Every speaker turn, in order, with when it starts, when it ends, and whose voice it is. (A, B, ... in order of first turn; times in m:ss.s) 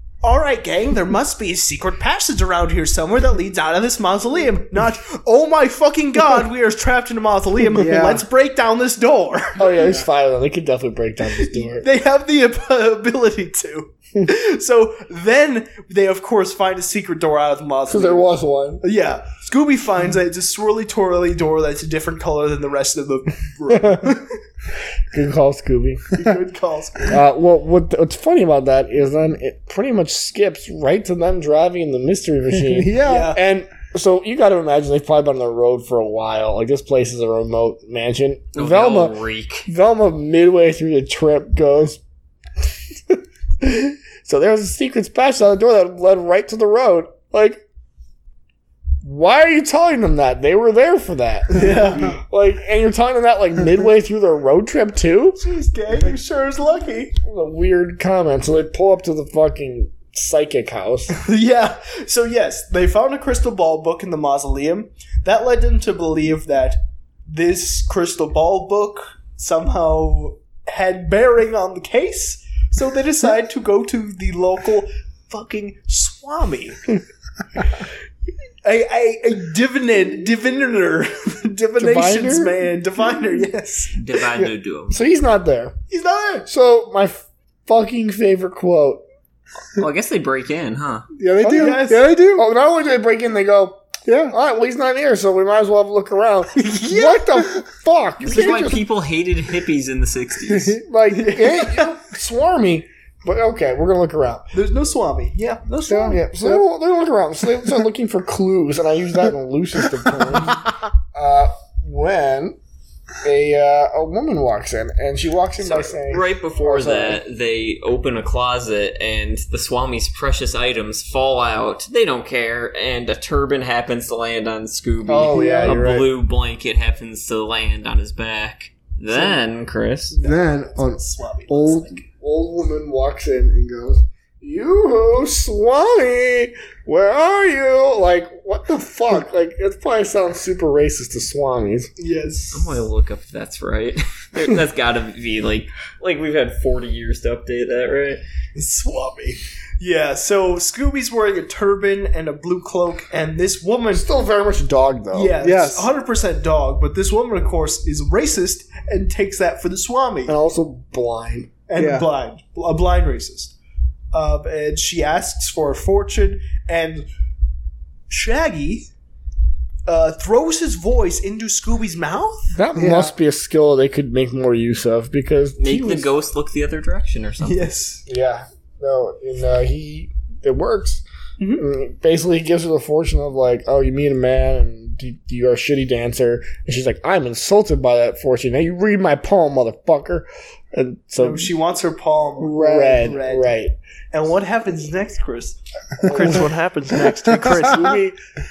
0:00.2-0:10.0 A
0:07.7-0:08.2 B
0:09.6-0:11.9 C
0:11.3-0:18.3 A
0:17.9-0:18.8 C
0:18.8-0:24.4 A
0:23.7-0:24.2 C
0:25.1-0:26.2 C
0:26.1-0:27.2 A
0:27.1-0:42.0 C
0:32.7-0:33.3 B
0:33.0-0:33.4 A
0:38.6-0:39.7 D
0:43.1-0:47.6 C
0:49.0-0:55.4 C
0:51.5-0:52.2 A
0:55.4-0:57.2 A
0:57.2-1:01.2 C
1:01.1-1:16.8 A
1:18.6-1:23.9 A
1:21.8-1:22.6 C
1:24.0-1:25.0 D
1:24.4-1:25.8 C
1:25.9-1:26.5 A
1:26.5-1:29.0 C
1:29.8-1:31.1 D
1:31.2-1:32.5 B
1:31.4-1:31.8 C
1:31.4-1:32.2 A
1:32.3-1:38.8 C
1:34.1-1:34.4 B
1:36.6-1:37.4 A
1:38.2-1:40.8 D
1:40.8-1:44.5 C
1:41.1-1:42.0 A
1:44.5-1:46.2 A
1:45.9-1:46.6 B
1:46.0-1:52.6 C
1:53.2-1:57.2 C
1:55.6-2:10.2 D
2:05.1-2:06.1 C
2:05.3-2:05.8 B
2:10.2-2:21.9 C
2:10.2-2:12.0 A
2:22.0-2:22.8 A
2:22.5-2:28.2 D
2:28.6-2:34.0 A
2:33.9-2:35.4 C
2:35.1-2:40.4 A
2:35.4-2:35.9 B
2:40.3-2:41.5 C
2:41.7-2:43.5 A
2:41.8-2:42.1 B
2:44.1-2:47.1 A
2:48.1-2:48.9 A
2:49.9-2:52.5 A
2:52.5-2:56.1 C
2:52.8-2:53.1 B
2:55.6-2:57.6 D
2:57.4-2:58.0 A
2:58.1-3:01.0 C
3:01.4-3:01.6 A
3:01.6-3:11.5 C
3:11.2-3:13.5 A
3:12.4-3:13.8 C
3:14.1-3:18.0 A
3:16.0-3:16.5 C
3:17.4-3:18.2 C